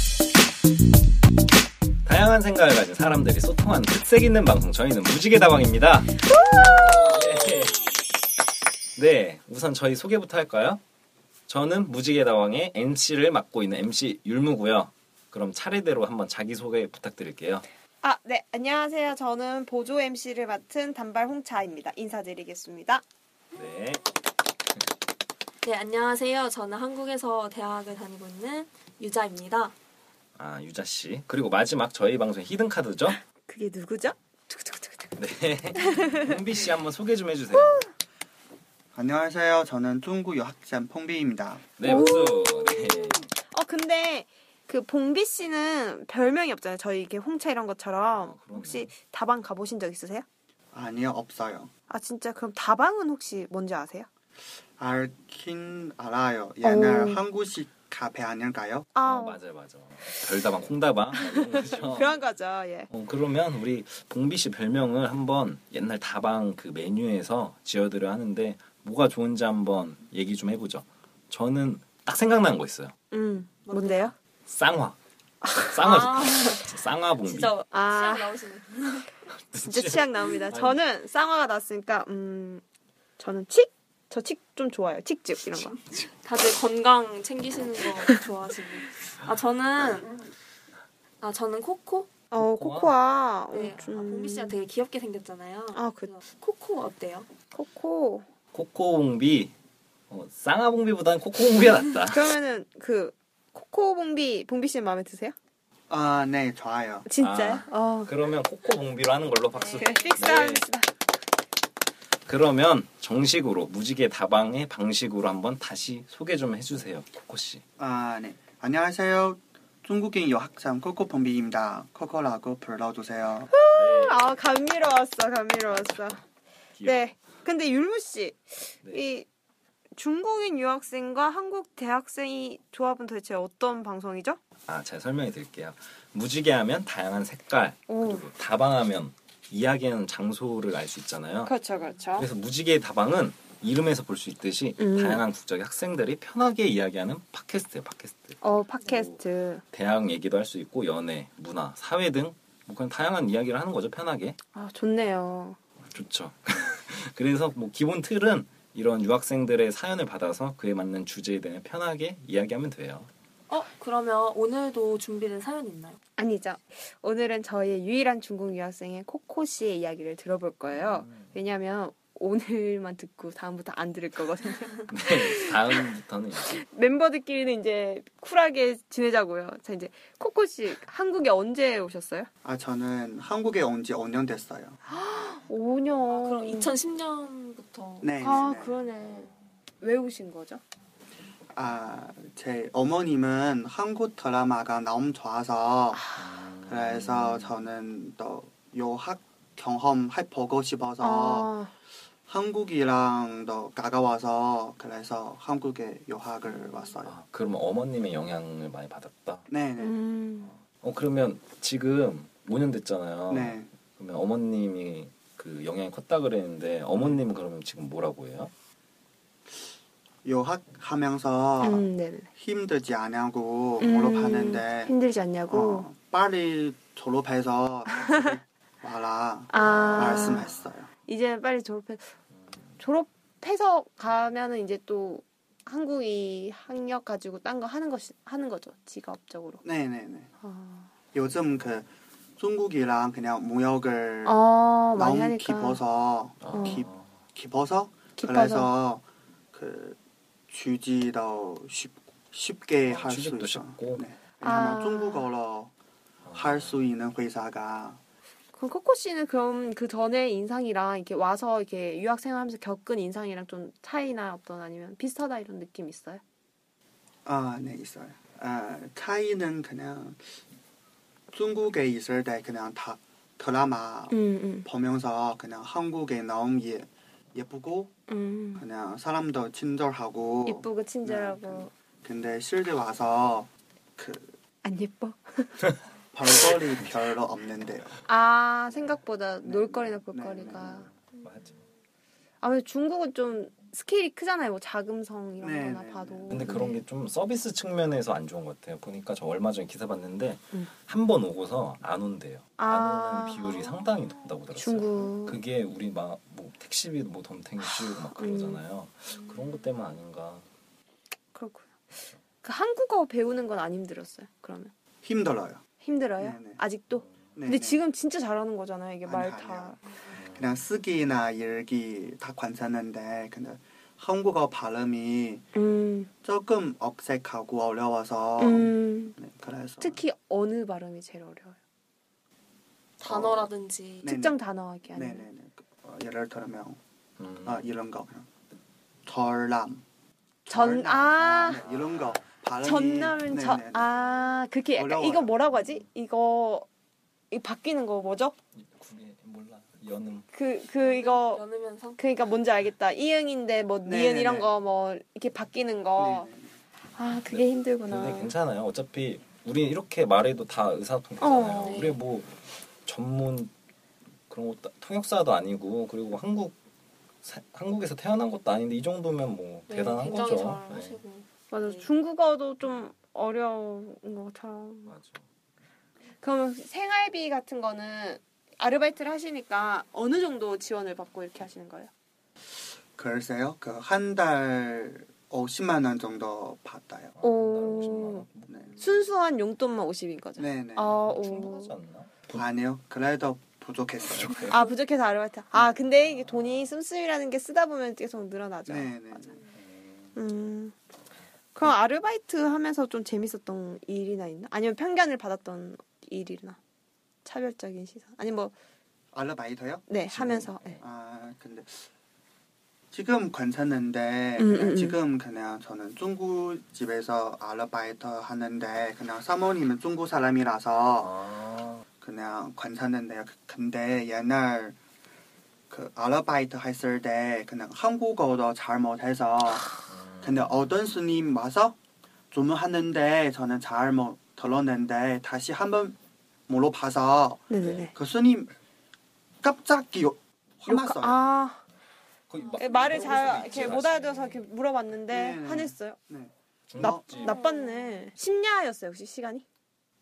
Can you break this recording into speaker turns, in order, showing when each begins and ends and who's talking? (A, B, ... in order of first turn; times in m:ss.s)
0:02.0-0:06.2 A
0:06.9-0:07.9 A
0:09.0-0:10.8 A
0:11.5-0:17.7 A
0:18.0-0:23.0 B
0:23.6-0:24.0 A
0:25.6-0:29.7 C
0:30.4-0:33.2 A
0:33.5-0:35.2 B
0:35.2-0:37.9 A
0:35.8-0:36.3 B
0:38.9-0:41.7 D
0:41.8-0:43.3 A
0:41.8-0:50.2 B
0:48.1-0:48.9 A
0:50.7-0:51.7 D
0:51.9-0:54.1 B
0:54.8-0:58.9 D
0:56.6-0:57.2 B
0:58.9-0:59.4 B
0:59.0-1:02.1 A
1:01.2-1:02.9 B
1:02.9-1:13.0 A
1:13.1-1:14.1 B
1:13.7-1:14.1 C
1:14.5-1:15.0 A
1:15.4-1:15.8 B
1:15.6-1:17.6 A
1:15.8-1:16.5 C
1:17.2-1:19.1 C
1:17.7-1:18.4 B
1:19.5-1:20.8 A
1:19.6-1:22.6 B
1:23.2-1:25.8 B
1:25.5-1:26.1 A
1:26.1-1:30.2 C
1:31.2-1:32.3 C
1:32.3-1:34.6 B
1:32.3-1:32.9 A
1:33.5-1:37.3 C
1:35.7-1:36.1 B
1:37.5-1:38.2 B
1:38.5-1:39.5 A
1:40.1-1:42.4 A
1:42.1-1:45.4 B
1:45.9-1:47.1 D
1:47.1-1:48.1 B
1:47.2-1:50.7 A
1:49.7-1:50.9 B
1:52.3-1:57.6 A
1:57.8-2:03.5 D
2:03.5-2:06.2 B
2:03.7-2:04.4 A
2:06.7-2:07.1 A
2:06.8-2:09.3 B
2:10.0-2:14.4 B
2:14.7-2:21.5 A
2:17.9-2:18.3 B
2:21.4-2:22.3 B
2:22.2-2:29.2 A
2:24.8-2:25.2 B
2:28.4-2:29.6 B
2:29.7-2:34.4 A
2:34.5-2:35.6 B
2:35.9-2:43.1 A
2:43.5-2:46.0 C
2:46.2-2:55.6 B
2:50.7-2:51.3 A
2:54.9-2:56.6 A
2:56.5-3:02.3 B
3:02.4-3:04.8 D
3:04.8-3:06.7 B
3:06.1-3:08.4 C
3:08.0-3:08.8 D
3:08.2-3:10.6 B
3:11.6-3:16.1 D
3:15.9-3:16.2 B
3:16.2-3:17.7 A
3:16.7-3:21.5 D
3:21.0-3:21.7 B
3:22.3-3:27.2 D
3:27.0-3:29.5 A
3:29.5-3:30.0 D
3:29.8-3:30.5 B
3:30.4-3:38.5 A
3:33.3-3:33.7 D
3:40.2-3:44.9 D
3:41.6-3:42.3 B
3:43.8-3:45.9 B
3:45.5-3:50.9 D
3:49.5-3:50.5 B
3:49.6-3:50.5 A
3:51.1-3:52.1 B
3:52.8-3:59.6 B
3:59.6-4:00.3 D
4:00.4-4:00.9 B
4:01.1-4:01.9 D
4:02.4-4:04.4 D
4:04.2-4:05.8 B
4:05.0-4:10.0 D
4:06.4-4:07.1 A
4:08.2-4:08.7 B
4:10.5-4:15.7 D
4:12.9-4:14.0 A
4:14.4-4:15.3 B
4:16.2-4:16.8 A
4:16.3-4:18.0 D
4:18.5-4:26.2 B
4:27.2-4:30.2 D
4:31.3-4:37.9 D
4:34.1-4:34.7 B
4:38.1-4:38.6 B
4:38.6-4:44.4 D
4:40.5-4:41.7 B
4:44.6-4:45.7 B
4:46.1-4:48.0 D
4:48.0-4:50.9 B
4:49.4-4:50.9 D
4:50.9-4:51.6 A
4:52.4-4:56.8 B
4:55.4-4:56.6 D
4:56.3-5:10.4 A
5:02.6-5:03.7 B
5:04.5-5:05.4 B
5:08.1-5:08.6 B
5:11.3-5:14.7 B
5:15.0-5:15.6 D
5:15.8-5:19.8 B
5:16.2-5:16.6 D
5:17.4-5:17.8 D
5:19.0-5:25.4 D
5:25.6-5:26.1 B
5:26.2-5:30.0 D
5:28.4-5:29.2 B
5:29.8-5:31.6 B
5:33.0-5:34.1 C
5:33.0-5:33.5 D
5:34.0-5:34.4 D
5:34.0-5:35.3 B
5:34.9-5:36.8 D
5:37.2-5:37.7 A
5:37.4-5:38.3 D
5:39.0-5:39.8 D
5:40.5-5:41.6 B
5:40.5-5:43.9 D
5:41.6-5:42.2 A
5:42.6-5:46.7 B
5:44.7-5:45.3 D
5:45.5-5:45.8 A
5:47.3-5:48.3 B
5:48.6-5:50.3 A
5:50.3-5:51.4 B
5:50.8-5:52.0 C
5:52.0-5:56.3 B
5:53.8-5:54.5 D
5:56.0-5:56.6 D
5:56.9-5:58.3 B
5:57.3-6:02.3 A
6:01.2-6:01.9 B
6:01.6-6:01.9 C
6:02.9-6:03.5 A
6:04.3-6:06.6 A
6:07.2-6:11.0 A
6:09.7-6:11.9 C
6:11.5-6:14.9 B
6:14.9-6:15.2 A
6:16.2-6:21.9 B
6:23.0-6:27.1 D
6:27.2-6:29.1 A
6:27.2-6:28.3 B
6:28.5-6:28.7 D
6:28.8-6:31.8 B
6:30.4-6:31.0 D
6:31.0-6:32.4 A
6:32.3-6:34.6 D
6:34.0-6:34.7 A
6:34.4-6:39.4 B
6:36.0-6:36.7 A
6:38.7-6:39.4 D
6:39.6-6:40.1 A
6:40.2-6:40.7 B
6:41.6-6:46.6 B
6:47.2-6:48.5 B
6:49.1-6:51.9 D
6:49.9-6:50.8 B
6:50.1-6:50.8 A
6:52.9-7:01.2 D
6:54.4-6:55.0 B
7:01.0-7:01.8 A
7:02.0-7:04.8 D
7:05.7-7:11.8 D
7:09.8-7:10.7 A
7:12.3-7:16.0 D
7:16.5-7:18.5 D
7:17.5-7:17.9 B
7:17.6-7:17.9 A
7:19.4-7:21.2 D
7:20.7-7:21.6 B
7:22.3-7:24.5 A
7:22.5-7:26.0 B
7:22.6-7:23.4 C
7:25.1-7:27.1 D
7:26.7-7:27.2 A
7:26.8-7:29.4 B
7:27.1-7:28.0 C